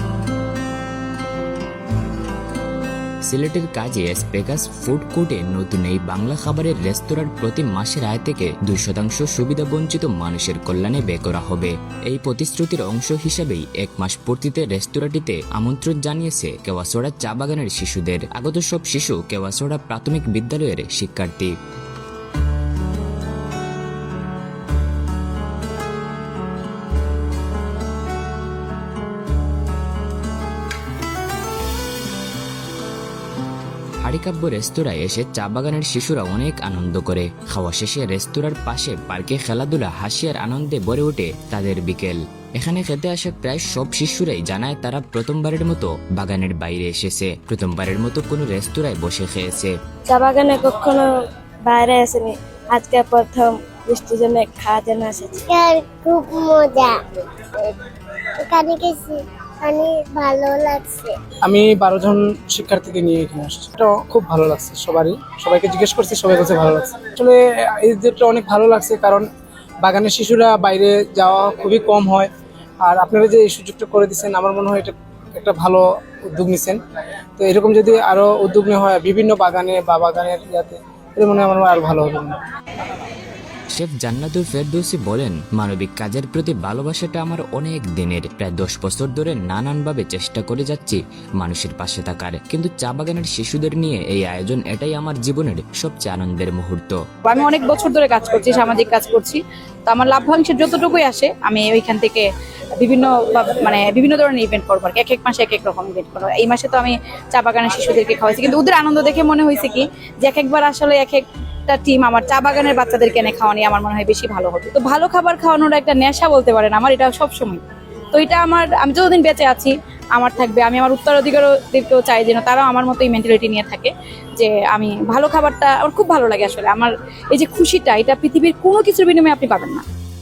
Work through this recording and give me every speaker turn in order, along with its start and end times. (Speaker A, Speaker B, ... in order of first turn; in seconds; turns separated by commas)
Speaker A: 3.3-21.5, Speaker A: 34.0-49.7, Speaker B: 50.1-51.1, Speaker B: 51.7-55.4, Speaker C: 55.4-57.0, Speaker C: 58.4-61.1, Speaker D: 61.5-69.3, Speaker D: 69.8-72.3, Speaker D: 72.8-76.8, Speaker D: 77.4-82.4, Speaker A: 83.7-97.0, Speaker E: 97.2-102.3, Speaker E: 102.8-129.8